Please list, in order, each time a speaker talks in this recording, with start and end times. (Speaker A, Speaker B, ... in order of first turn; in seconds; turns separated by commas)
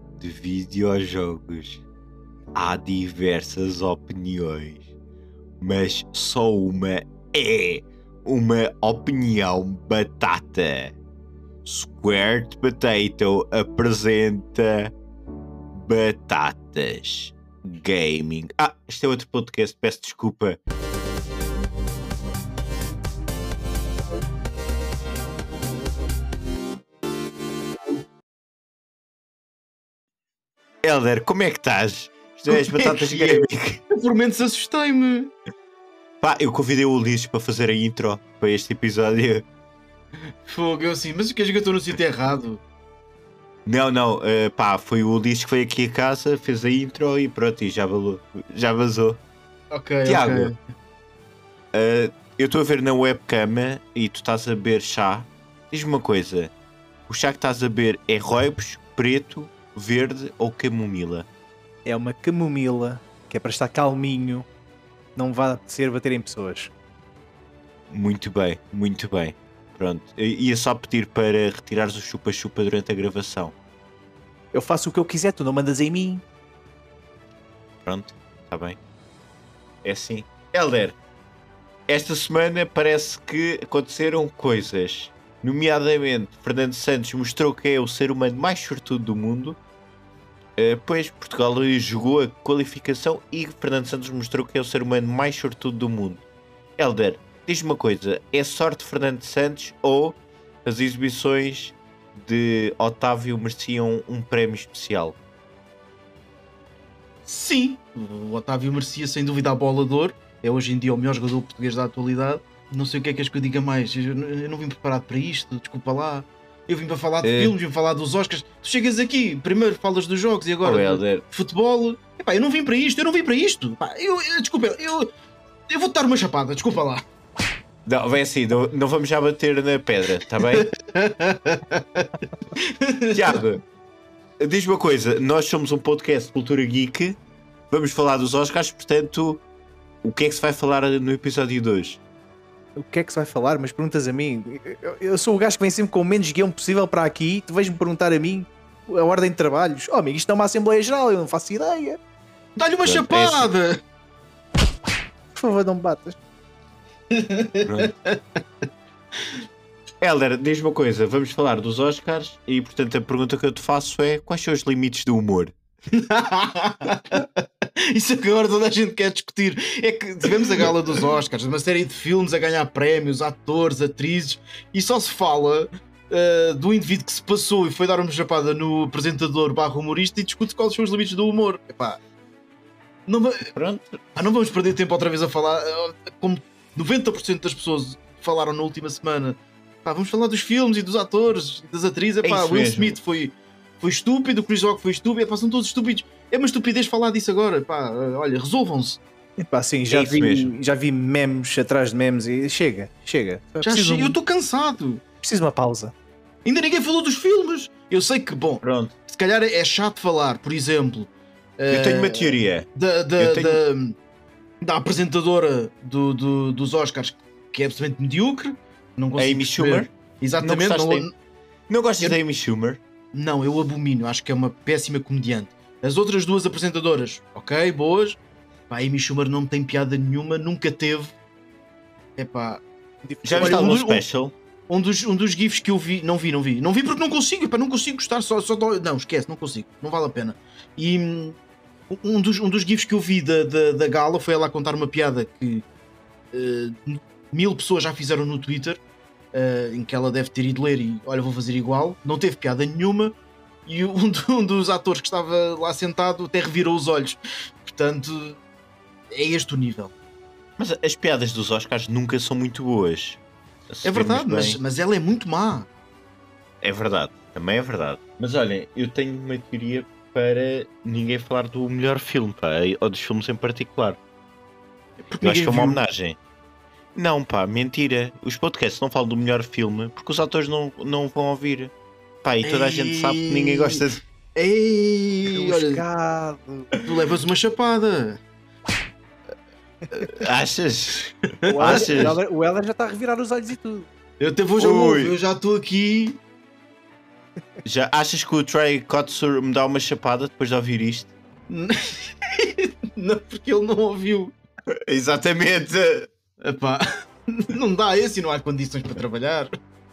Speaker A: 0.2-1.8, Speaker A: 2.5-4.8, Speaker A: 5.6-10.9, Speaker A: 11.7-14.9, Speaker A: 15.7-20.6, Speaker A: 30.8-33.8, Speaker B: 32.5-35.3, Speaker A: 36.2-39.5, Speaker B: 40.4-42.6, Speaker A: 43.7-49.2, Speaker B: 49.7-50.6, Speaker A: 50.1-50.5, Speaker A: 51.7-56.5, Speaker A: 57.1-61.3, Speaker C: 61.9-64.5, Speaker C: 65.2-66.7, Speaker A: 67.9-73.5, Speaker C: 74.5-76.2, Speaker A: 77.8-78.8, Speaker A: 79.8-81.0, Speaker A: 81.9-89.6, Speaker A: 90.6-96.2, Speaker A: 96.8-105.2, Speaker B: 107.3-125.1, Speaker A: 117.2-117.5, Speaker A: 120.6-121.2, Speaker B: 125.7-127.0, Speaker A: 127.9-130.7, Speaker B: 130.5-133.4, Speaker A: 133.1-133.6, Speaker A: 134.4-137.2, Speaker A: 137.7-139.4, Speaker A: 140.0-142.0, Speaker C: 142.8-152.0, Speaker B: 152.6-153.8, Speaker A: 152.8-153.5, Speaker C: 155.4-156.2, Speaker B: 157.1-158.4, Speaker A: 157.7-157.9, Speaker A: 160.0-165.5, Speaker B: 165.9-182.0, Speaker B: 183.1-183.5, Speaker A: 183.5-184.0, Speaker B: 184.2-199.0, Speaker A: 192.2-193.0, Speaker C: 199.4-204.2, Speaker A: 199.9-200.5, Speaker B: 203.6-205.0, Speaker C: 205.2-205.9, Speaker B: 206.4-214.0, Speaker A: 208.6-208.9, Speaker A: 211.7-212.7, Speaker A: 213.2-213.6, Speaker B: 214.6-221.1, Speaker A: 219.2-221.1, Speaker A: 221.7-222.8, Speaker B: 223.1-228.2, Speaker B: 228.7-231.2, Speaker B: 232.2-232.6, Speaker C: 233.0-233.8, Speaker A: 233.2-234.3, Speaker B: 233.4-234.1, Speaker B: 234.7-241.4, Speaker B: 241.9-245.7, Speaker B: 246.3-248.8, Speaker B: 249.3-258.4, Speaker B: 259.1-259.9, Speaker A: 260.6-264.6, Speaker B: 263.9-265.7, Speaker A: 266.6-274.0, Speaker B: 275.0-275.8, Speaker A: 275.2-276.2, Speaker A: 276.9-281.7, Speaker A: 282.2-284.0, Speaker B: 282.4-283.8, Speaker B: 284.4-285.8, Speaker C: 285.3-286.8, Speaker B: 286.8-288.2, Speaker A: 290.1-292.2, Speaker B: 291.4-292.1, Speaker C: 291.5-293.9, Speaker B: 294.2-296.2, Speaker A: 294.6-295.1, Speaker A: 297.6-301.1, Speaker B: 301.5-304.4, Speaker A: 304.7-306.1, Speaker B: 306.4-309.5